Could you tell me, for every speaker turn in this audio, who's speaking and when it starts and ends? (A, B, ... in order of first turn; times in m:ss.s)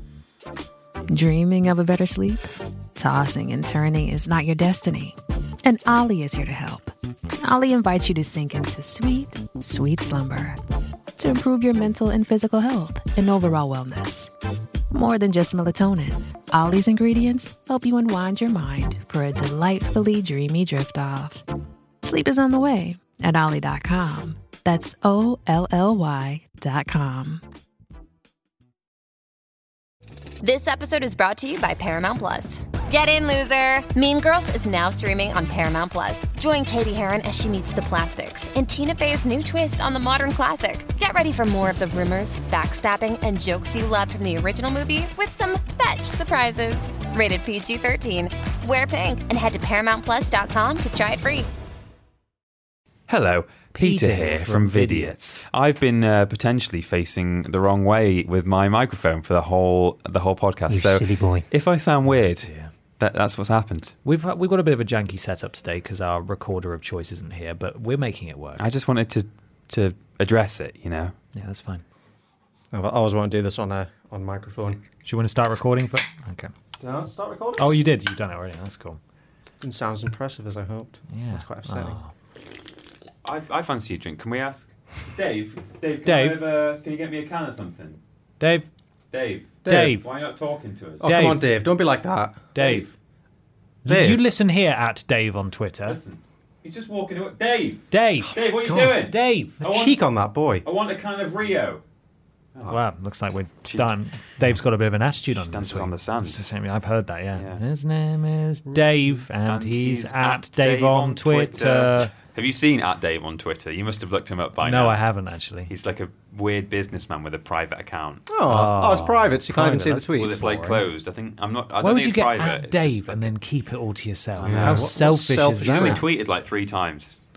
0:01.1-0:10.6 A
0:11.2-0:14.3 A
0:14.9-0:21.4 A
0:22.0-0:27.4 A
0:30.4-0:51.5 B
0:53.1-1:04.0 C
0:53.8-0:55.4 D
1:00.7-1:01.5 E
1:02.4-1:02.7 D
1:04.0-1:08.6 D
1:08.6-1:11.1 C
1:11.3-1:11.8 D
1:12.7-1:14.8 E
1:15.0-1:16.5 D
1:16.8-1:17.8 E
1:17.6-1:19.0 D
1:19.6-1:22.0 E
1:21.1-1:22.1 D
1:23.2-1:28.0 C
1:26.0-1:26.4 D
1:28.4-1:28.7 D
1:29.1-1:31.0 C
1:29.6-1:30.0 E
1:29.7-1:30.0 D
1:31.0-1:32.4 E
1:31.0-1:31.4 D
1:32.5-1:32.9 D
1:32.6-1:32.8 C
1:33.8-1:36.0 D
1:33.9-1:34.2 E
1:35.8-1:40.0 C
1:37.9-1:39.6 D
1:38.6-1:38.9 E
1:39.6-1:40.6 E
1:40.6-1:41.8 C
1:42.7-1:52.1 D
1:45.3-1:46.4 C
1:49.4-1:55.0 C
1:54.6-1:55.7 D
1:55.7-1:58.2 C
1:58.3-2:00.6 E
1:58.5-2:00.8 D
2:00.1-2:03.3 C
2:01.8-2:06.0 D
2:04.4-2:04.9 C
2:04.4-2:06.0 E
2:05.7-2:07.2 C